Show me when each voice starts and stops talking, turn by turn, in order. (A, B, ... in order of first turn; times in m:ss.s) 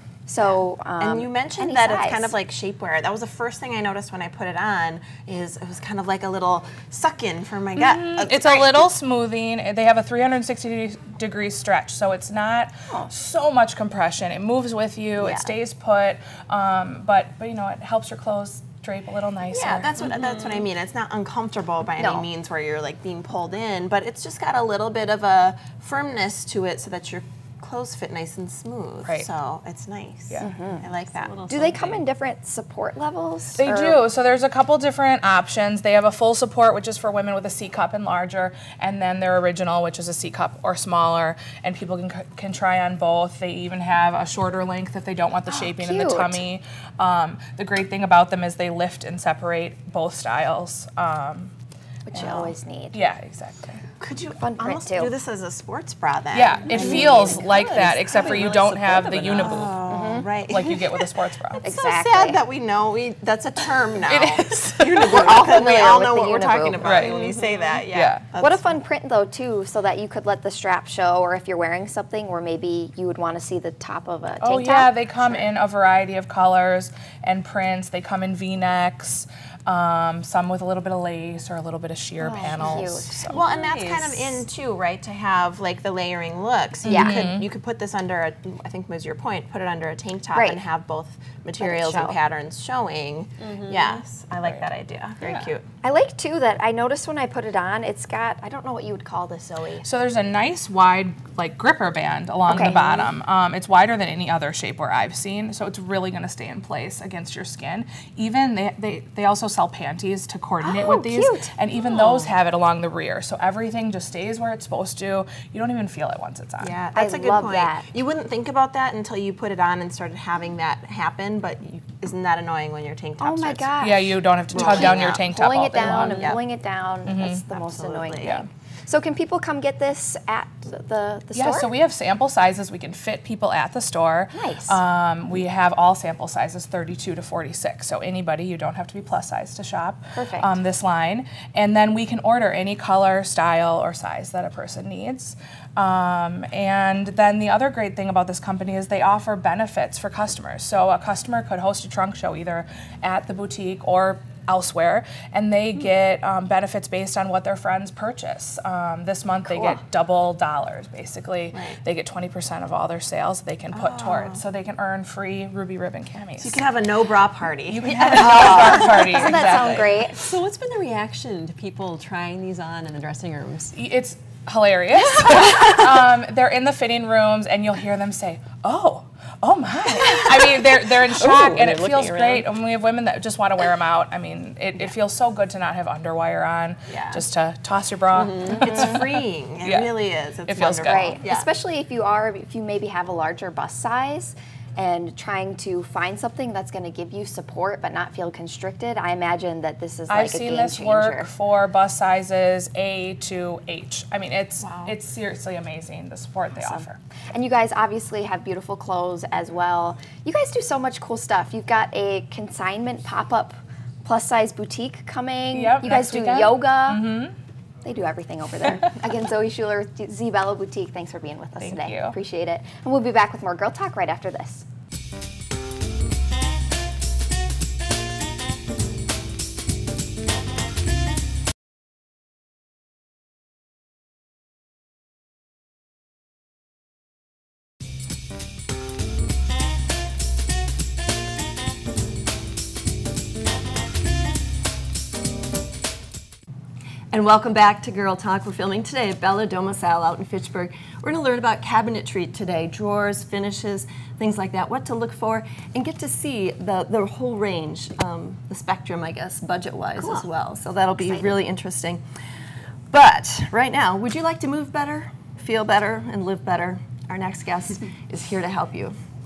0:00.3-0:02.3 A
0:01.0-0:08.9 B
0:07.8-0:19.9 C
0:19.5-0:31.4 B
0:20.2-0:20.5 D
0:22.0-0:22.3 A
0:30.4-0:30.9 A
0:31.0-0:32.1 D
0:31.5-0:34.0 A
0:33.6-0:51.5 C
0:45.5-0:46.4 A
0:52.1-0:53.0 A
0:52.1-0:53.8 C
0:52.2-0:52.5 B
0:54.0-0:57.5 B
0:54.4-0:55.2 A
0:56.3-0:59.8 C
0:56.6-0:59.8 D
0:56.7-0:57.4 A
0:59.4-1:00.9 B
0:59.9-1:00.3 A
1:00.5-1:01.6 C
1:01.6-1:08.8 B
1:01.6-1:02.4 A
1:04.1-1:05.6 C
1:05.0-1:07.1 A
1:06.8-1:07.4 C
1:07.1-1:07.8 D
1:07.9-1:08.2 C
1:08.4-1:15.5 A
1:14.4-1:23.4 C
1:22.2-1:23.3 A
1:23.3-1:35.6 B
1:23.3-1:24.4 D
1:26.9-1:27.4 A
1:26.9-1:27.5 C
1:30.3-1:30.6 A
1:31.6-1:32.2 A
1:33.4-1:34.0 D
1:35.2-1:35.5 D
1:35.8-1:39.8 A
1:39.8-1:56.8 C
1:42.5-1:43.1 A
1:50.6-1:52.4 A
1:56.6-2:03.7 B
1:56.9-1:57.9 A
2:03.2-2:11.7 A
2:03.8-2:06.4 C
2:04.5-2:05.2 B
2:05.8-2:06.4 B
2:06.0-2:06.4 D
2:07.1-2:07.4 C
2:07.5-2:08.4 B
2:11.3-2:46.6 C
2:14.3-2:14.8 A
2:20.2-2:20.6 A
2:41.5-2:41.8 B
2:43.7-2:44.4 B
2:46.4-2:49.2 B
2:47.7-2:49.9 C
2:48.1-2:50.2 A
2:50.1-2:53.7 D
2:53.7-3:09.1 C
3:01.2-3:02.3 E
3:08.2-3:08.8 D
3:08.5-3:11.2 B
3:09.6-3:11.2 C
3:10.9-3:21.3 A
3:20.1-3:27.0 C
3:26.6-3:37.1 A
3:35.5-3:37.3 C
3:37.8-3:44.7 A
3:41.6-3:42.2 C
4:07.1-4:22.0 E
4:21.0-4:21.4 A
4:22.9-4:29.0 E